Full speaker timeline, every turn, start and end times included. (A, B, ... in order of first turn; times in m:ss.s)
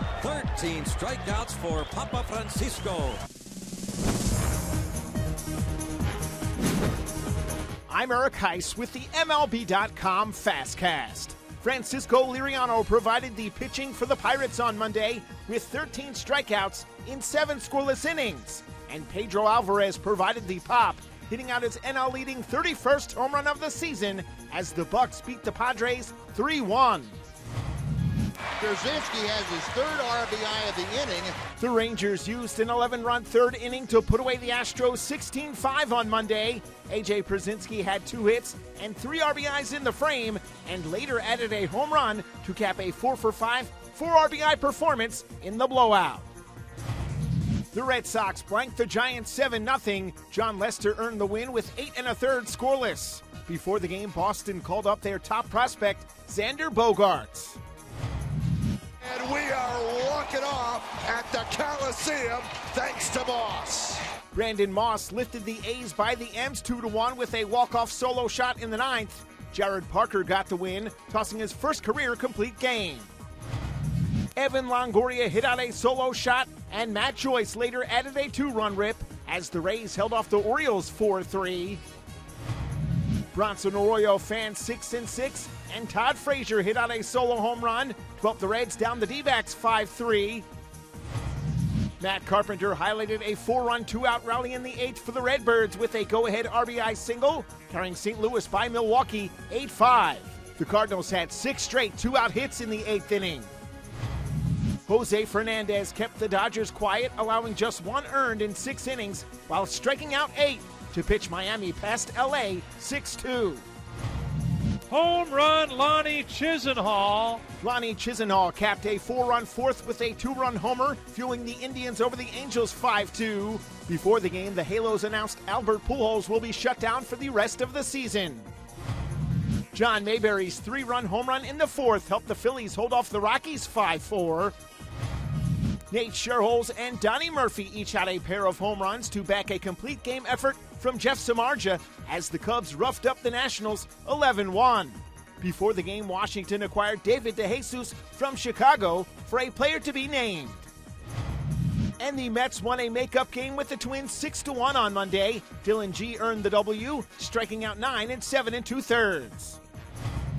0:00.2-0:03.2 A
0:07.9-0:27.1 B
0:28.6-0:31.4 C
0:31.5-0:46.3 B
0:47.7-0:57.6 B
0:59.1-1:04.0 D
1:04.3-1:13.1 B
1:14.4-1:21.8 B
1:23.3-1:30.5 B
1:32.0-1:43.5 B
1:44.9-1:53.6 B
1:54.9-1:57.4 E
1:57.6-2:08.5 B
2:09.7-2:14.6 B
2:15.9-2:30.7 B
2:32.0-2:39.6 B